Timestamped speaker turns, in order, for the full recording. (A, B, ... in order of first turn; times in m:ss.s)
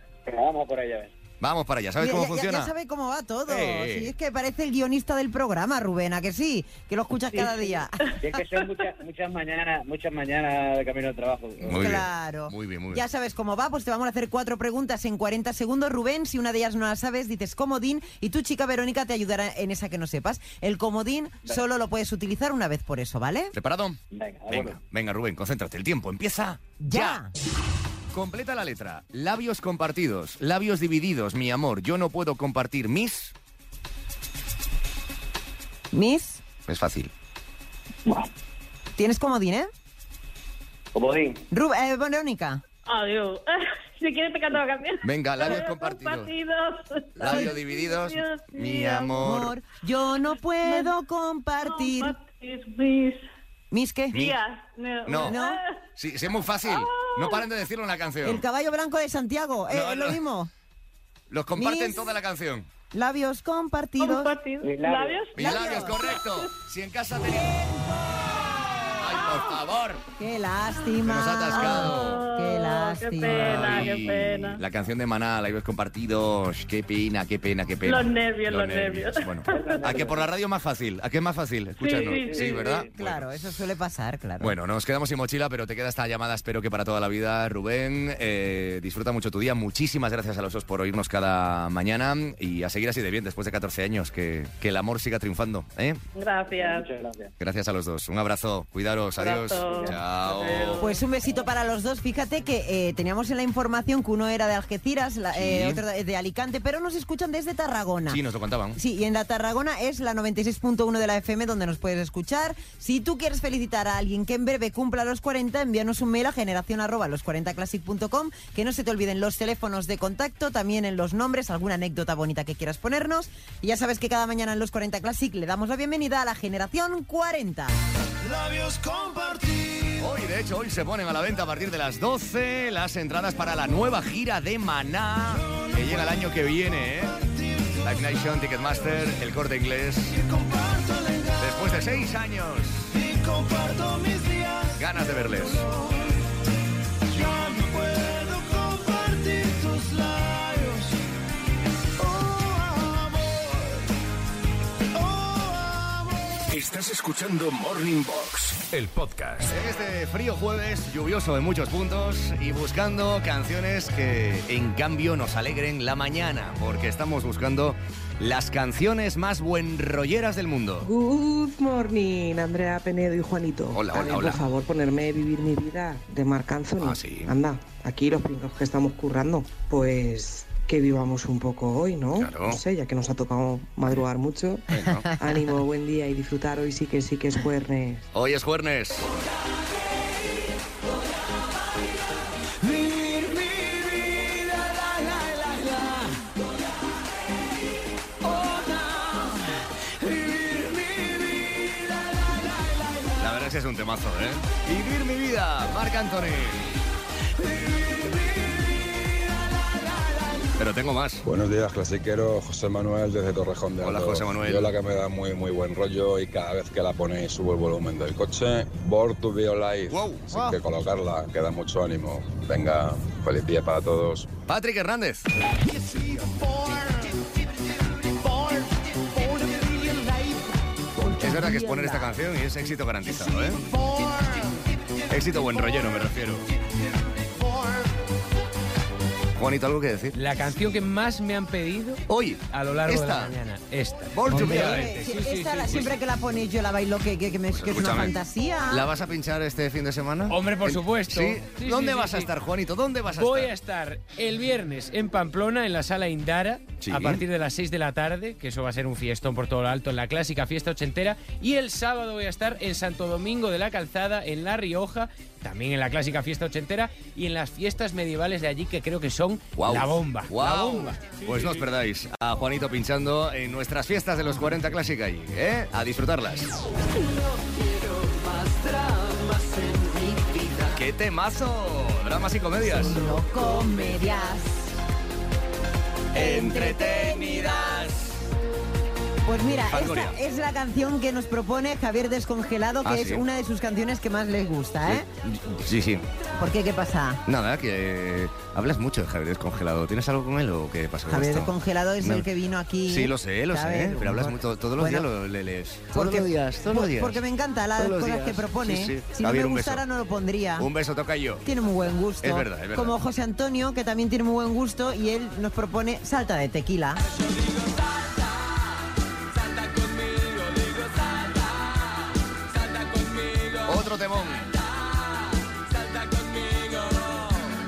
0:00.3-0:01.1 A
0:01.4-0:02.7 B
0:02.0-0:08.1 C
0:03.5-0:04.1 B
0:07.4-0:07.6 A
0:08.2-0:11.9 A
0:11.6-0:23.5 C
0:11.7-0:13.0 B
0:23.6-0:27.2 B
0:24.1-0:24.8 A
0:26.8-0:27.3 C
0:28.1-0:33.3 B
0:35.9-0:36.4 C
0:36.7-0:37.1 B
0:39.0-0:39.7 C
0:40.9-0:41.4 A
0:41.5-0:42.6 C
0:42.9-0:49.3 D
0:45.0-0:46.3 B
0:47.2-0:49.5 B
0:47.2-0:47.5 C
0:49.2-0:52.2 C
0:50.6-0:50.9 D
0:51.6-0:53.3 D
0:53.7-0:54.2 C
0:54.1-0:55.8 D
0:55.1-0:55.4 B
0:55.2-0:55.6 C
0:56.0-0:58.4 B
0:56.6-0:57.5 D
0:58.2-1:00.5 C
0:59.7-1:00.2 B
1:01.3-1:02.7 B
1:01.6-1:02.1 C
1:02.9-1:04.3 C
1:04.0-1:06.5 D
1:04.6-1:05.3 A
1:05.3-1:08.3 B
1:05.4-1:06.0 C
1:07.5-1:09.0 C
1:08.8-1:10.0 B
1:10.2-1:13.9 C
1:11.0-1:12.2 B
1:11.5-1:14.6 D
1:13.2-1:23.3 B
1:17.8-1:19.8 D
1:19.5-1:20.3 A
1:21.8-1:22.9 D
1:22.1-1:22.8 A
1:22.9-1:24.5 C
1:24.4-1:36.0 B
1:36.2-1:36.9 D
1:36.5-1:37.3 A
1:37.4-1:40.8 B
1:39.2-1:40.0 D
1:39.6-1:41.0 A
1:40.8-1:48.2 C
1:45.3-1:45.8 B
1:48.1-1:48.8 B
1:48.8-2:07.8 C
2:08.2-2:10.1 E
2:10.0-2:17.1 B
2:15.3-2:18.2 E
2:17.8-2:20.1 B
2:20.1-2:22.0 E
2:21.4-2:22.9 B
2:22.9-2:26.2 E
2:24.8-2:25.6 B
2:27.1-2:31.0 E
2:32.0-2:33.9 E
2:34.9-2:36.4 E
2:36.5-2:39.6 F
2:39.4-2:50.9 B
2:50.8-3:08.1 G
2:53.7-2:54.4 B
2:56.8-2:57.4 B
3:02.2-3:02.6 B
3:04.7-3:05.1 B
3:04.9-3:05.1 C
3:08.1-3:09.1 B
3:12.8-3:13.8 E
3:15.2-3:15.5 E
3:20.5-3:20.8 E
3:23.2-3:26.6 B
3:30.6-3:31.2 B
3:31.2-3:44.3 H
3:33.8-3:34.7 B
3:39.9-3:40.6 B
3:44.5-3:45.3 B
3:45.6-3:47.2 E
3:48.0-3:50.5 E
3:51.0-3:52.1 C
3:51.0-3:53.6 B
3:53.5-3:55.7 E
3:55.1-3:56.5 B
3:57.2-3:57.9 E
3:59.4-4:00.2 B
4:00.1-4:05.9 I
4:02.1-4:03.4 B
4:04.1-4:05.0 B
4:04.3-4:08.9 C
4:07.5-4:08.2 B
4:08.7-4:13.5 B
4:10.3-4:12.3 I
4:13.1-4:31.2 I
4:16.8-4:17.2 B
4:29.6-4:36.5 B
4:37.0-4:40.5 E
4:40.7-4:43.0 B
4:42.6-4:44.8 C
4:46.1-4:48.2 B
4:46.1-4:47.8 C
4:49.3-4:55.1 C
4:49.7-4:50.2 B
4:52.8-4:53.2 B
4:54.9-4:56.0 B
4:56.4-4:57.2 C
4:57.3-5:02.3 B
5:01.1-5:05.1 C
5:02.9-5:07.2 B
5:05.9-5:10.7 C
5:07.8-5:09.8 B
5:10.6-5:11.4 B
5:11.4-5:17.0 C
5:12.2-5:13.0 B
5:23.6-5:24.5 B